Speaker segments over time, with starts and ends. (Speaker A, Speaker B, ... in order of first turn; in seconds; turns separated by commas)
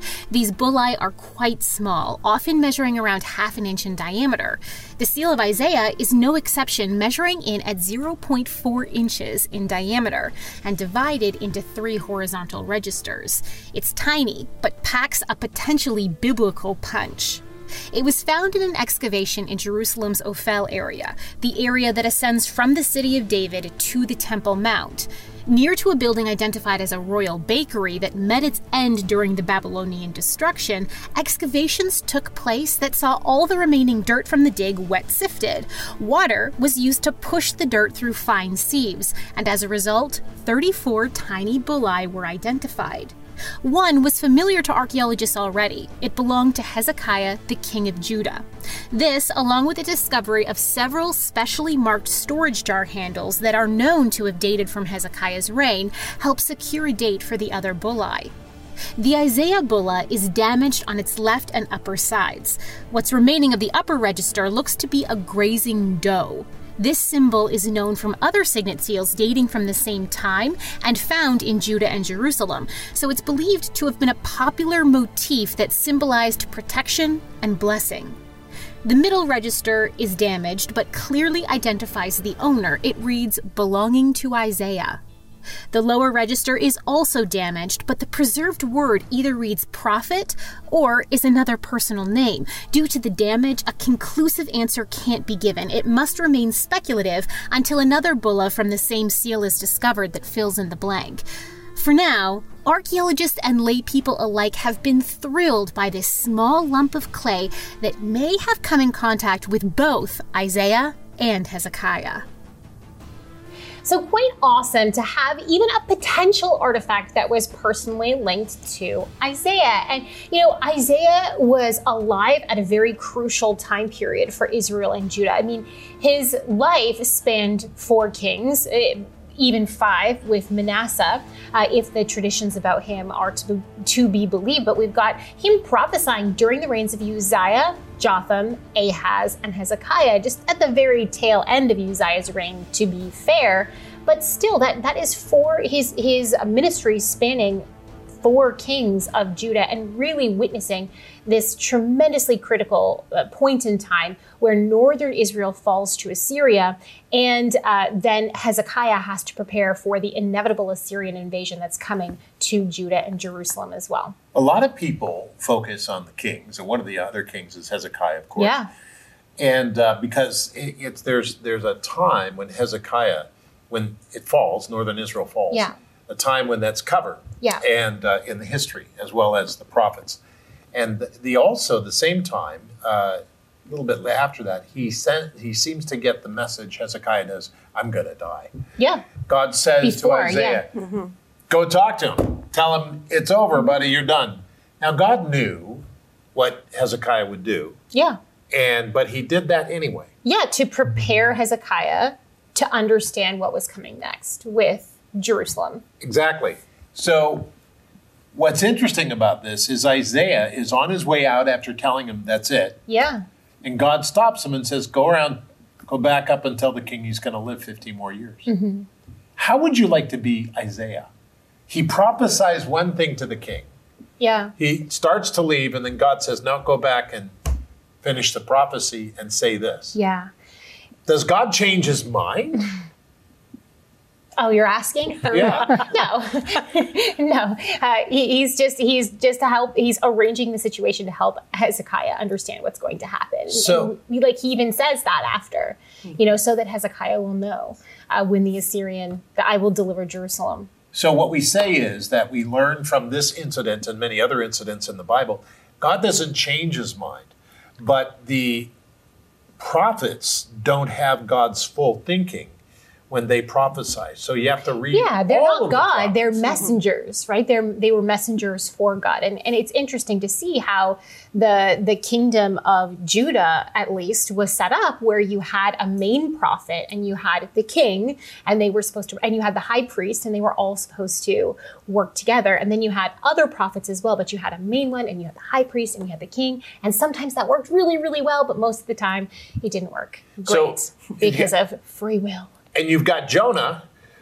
Speaker A: 0.3-58.3, Speaker A: 59.0-78.2, Speaker A: 78.8-85.0, Speaker A: 85.7-112.3, Speaker A: 113.8-147.7, Speaker A: 148.2-164.2, Speaker B: 164.3-168.6, Speaker A: 168.4-168.7, Speaker B: 169.4-180.2, Speaker B: 180.7-188.5, Speaker A: 188.8-189.1, Speaker B: 189.3-190.7, Speaker A: 189.8-190.6, Speaker B: 191.5-197.8, Speaker A: 197.9-198.2, Speaker B: 198.5-200.1, Speaker A: 200.2-205.8, Speaker B: 206.0-207.5, Speaker B: 208.3-212.8, Speaker A: 212.9-213.2, Speaker B: 213.6-218.5, Speaker A: 218.5-218.9, Speaker B: 219.4-221.1, Speaker B: 221.7-223.7, Speaker A: 224.2-224.5, Speaker B: 224.6-227.3, Speaker B: 228.0-230.0, Speaker A: 229.9-230.3, Speaker B: 231.1-232.6, Speaker A: 234.4-250.7, Speaker B: 235.3-235.9, Speaker B: 243.5-243.9, Speaker B: 250.9-258.7, Speaker B: 259.6-262.5, Speaker B: 263.1-266.7, Speaker A: 264.9-292.5, Speaker B: 290.5-291.5, Speaker B: 292.7-293.9